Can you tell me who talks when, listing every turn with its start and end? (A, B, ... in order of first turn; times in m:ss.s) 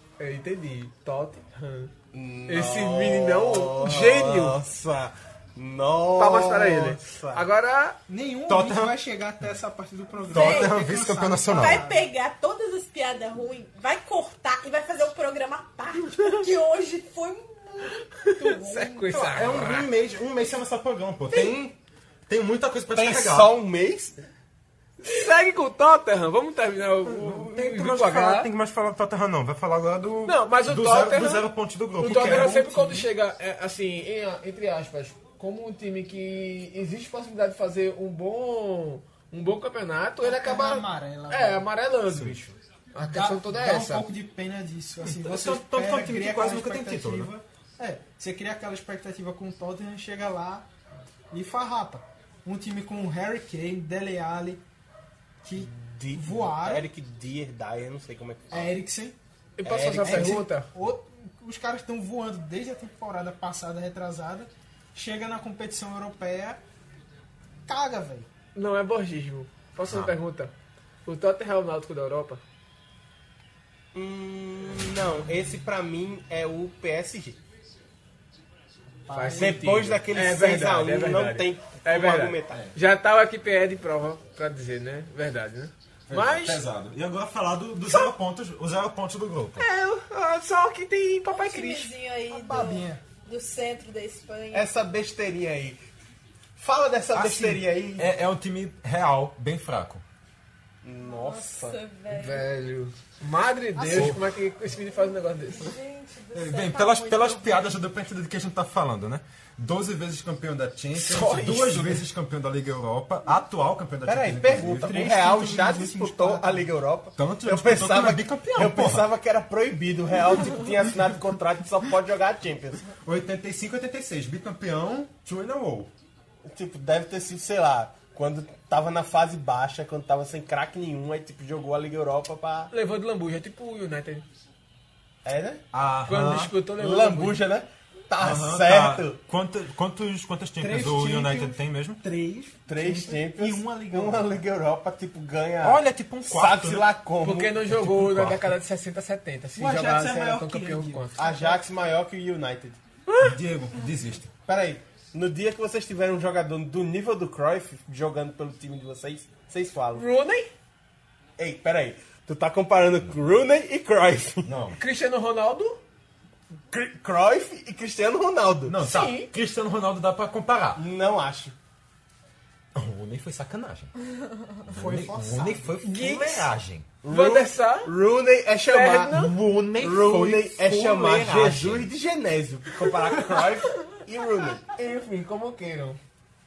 0:00.2-0:01.9 A
0:02.1-0:07.5 B
0:02.5-0:04.6 A
0:06.2-0:08.0 A
0:08.1-0:12.1 C
0:08.5-0:09.0 D
0:10.3-0:19.3 E
0:10.3-0:11.9 D
0:18.2-0:19.9 A
0:19.1-0:23.5 D
0:22.9-0:24.2 B
0:25.0-0:28.5 A
0:27.1-0:33.0 D
0:30.3-0:44.1 A
0:32.0-0:33.0 C
0:40.2-0:41.7 C
0:43.1-0:50.7 C
0:45.0-0:47.3 D
0:51.3-0:54.6 C
0:55.4-0:56.9 C
0:55.8-0:58.7 B
0:58.5-0:59.2 C
0:59.6-1:00.7 A
0:59.6-1:00.5 B
1:00.0-1:06.6 C
1:07.7-1:08.3 C
1:08.6-1:10.5 A
1:09.9-1:10.1 D
1:11.1-1:12.4 A
1:13.9-1:17.4 B
1:19.1-1:19.8 C
1:19.1-1:26.6 A
1:19.4-1:22.7 B
1:26.1-1:29.7 D
1:27.9-1:28.1 A
1:29.6-1:31.9 A
1:31.3-1:34.7 E
1:32.3-1:33.0 C
1:34.5-1:35.8 B
1:36.6-1:38.1 B
1:37.1-1:40.0 D
1:40.8-1:41.8 B
1:41.0-1:42.6 E
1:42.1-1:45.7 A
1:43.8-1:44.1 E
1:43.9-1:44.2 D
1:45.5-1:47.8 E
1:46.3-1:55.0 D
1:50.9-1:52.0 A
1:54.0-2:02.9 B
1:54.7-1:56.7 C
1:57.2-1:59.1 D
2:03.0-2:05.9 D
2:06.4-2:12.7 B
2:12.7-2:14.2 A
2:15.2-2:15.6 B
2:15.7-2:16.6 D
2:16.1-2:17.4 A
2:16.8-2:19.2 B
2:18.2-2:22.0 D
2:20.6-2:24.3 C
2:22.7-2:27.6 B
2:25.6-2:26.9 D
2:27.2-2:31.2 A
2:27.6-2:28.6 D
2:29.6-2:31.3 C
2:31.2-2:32.8 B
2:33.1-2:33.3 A
2:33.2-2:34.3 D
2:34.5-2:40.0 B
2:40.0-2:40.5 A
2:41.4-2:44.5 B
2:44.4-2:44.8 D
2:44.8-2:45.8 A
2:46.7-2:48.8 B
2:48.7-2:50.8 D
2:48.8-2:49.3 A
2:50.8-2:51.6 B
2:52.7-2:53.9 D
2:54.6-2:56.9 D
2:54.7-2:55.8 C
2:55.8-2:56.5 A
2:57.0-2:59.2 B
2:57.0-2:57.9 A
2:58.7-2:59.3 A
2:59.1-3:01.9 D
2:59.8-3:04.6 B
3:04.7-3:06.0 A